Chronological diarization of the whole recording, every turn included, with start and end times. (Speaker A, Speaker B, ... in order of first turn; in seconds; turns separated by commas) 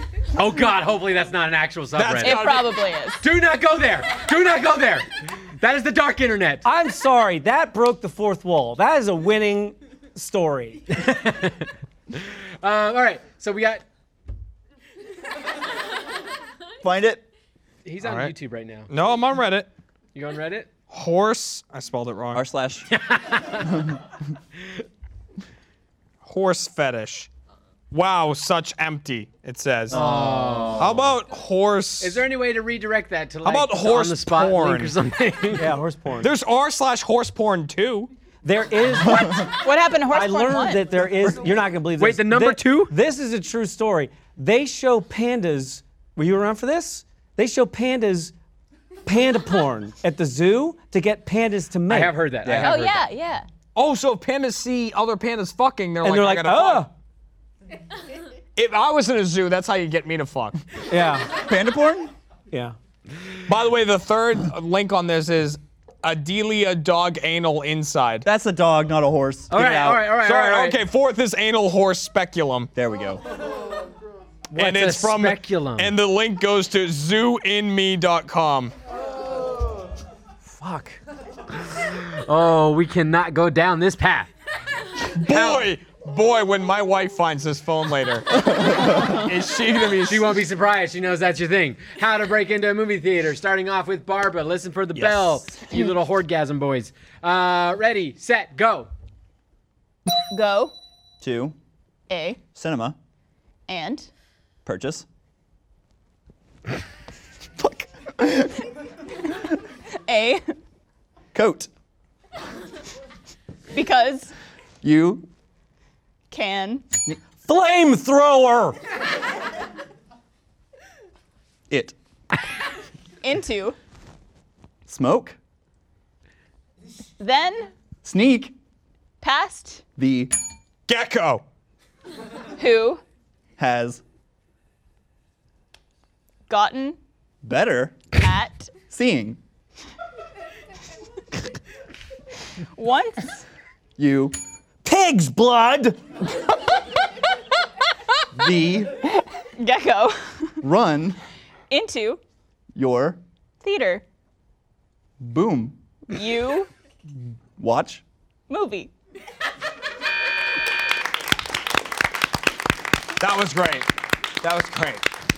Speaker A: 0.3-2.5, Speaker B: 2.0-2.8, Speaker C: 2.2-3.2, Speaker A: 3.2-6.7, Speaker D: 6.7-10.8, Speaker A: 10.9-13.8, Speaker E: 16.8-17.2, Speaker A: 17.9-18.9, Speaker B: 18.0-18.3, Speaker B: 18.9-19.7, Speaker A: 20.1-20.7, Speaker B: 20.9-22.4, Speaker E: 22.3-22.9, Speaker A: 22.9-23.9, Speaker E: 23.7-24.0, Speaker B: 26.2-27.3, Speaker B: 27.9-30.0, Speaker E: 29.9-31.0, Speaker A: 29.9-30.9, Speaker B: 30.8-32.2, Speaker A: 32.0-35.8, Speaker B: 33.5-35.0, Speaker D: 35.5-36.3, Speaker B: 36.2-38.1, Speaker D: 38.4-39.5, Speaker C: 39.2-41.0, Speaker D: 40.0-48.3, Speaker A: 42.0-42.9, Speaker D: 49.0-52.2, Speaker A: 51.9-53.1, Speaker E: 52.4-52.8, Speaker C: 52.5-53.5, Speaker B: 53.8-56.9, Speaker D: 56.0-56.9, Speaker B: 58.6-60.6, Speaker D: 60.9-61.3, Speaker E: 61.3-62.1, Speaker B: 63.5-68.3, Speaker E: 68.2-70.1, Speaker A: 69.5-70.8, Speaker B: 70.1-72.7, Speaker E: 72.8-73.2, Speaker A: 74.5-75.9, Speaker B: 74.6-78.7, Speaker D: 80.5-81.0, Speaker A: 81.7-84.3, Speaker B: 85.2-90.4, Speaker A: 85.2-85.7, Speaker E: 88.5-89.1, Speaker A: 90.1-98.9, Speaker B: 95.0-95.5, Speaker C: 100.3-100.7, Speaker E: 101.2-101.6, Speaker C: 102.1-102.4, Speaker E: 102.5-103.0, Speaker C: 103.7-104.1, Speaker E: 104.7-105.1, Speaker E: 107.6-108.6, Speaker C: 110.1-110.5, Speaker E: 111.3-111.7, Speaker C: 113.7-114.3, Speaker E: 114.8-115.3, Speaker C: 116.3-116.8, Speaker D: 117.4-118.8, Speaker E: 121.7-122.0, Speaker C: 123.2-123.8, Speaker E: 124.9-125.4, Speaker C: 127.2-127.7, Speaker E: 128.0-128.6, Speaker C: 129.2-129.8, Speaker E: 130.0-130.3, Speaker B: 130.9-131.4, Speaker C: 132.6-133.0, Speaker E: 133.6-134.0, Speaker C: 136.5-137.0, Speaker E: 137.4-138.1, Speaker C: 138.1-138.8, Speaker E: 138.9-139.4, Speaker C: 142.8-143.4, Speaker E: 144.0-144.4, Speaker D: 144.8-146.0, Speaker E: 148.3-149.3, Speaker C: 149.6-150.6, Speaker E: 150.6-151.2, Speaker C: 151.7-152.2, Speaker E: 152.8-153.2, Speaker C: 153.6-154.0, Speaker E: 155.2-155.8, Speaker C: 156.1-156.7, Speaker E: 157.6-158.0, Speaker C: 158.5-158.9, Speaker B: 163.2-163.9, Speaker B: 164.4-165.0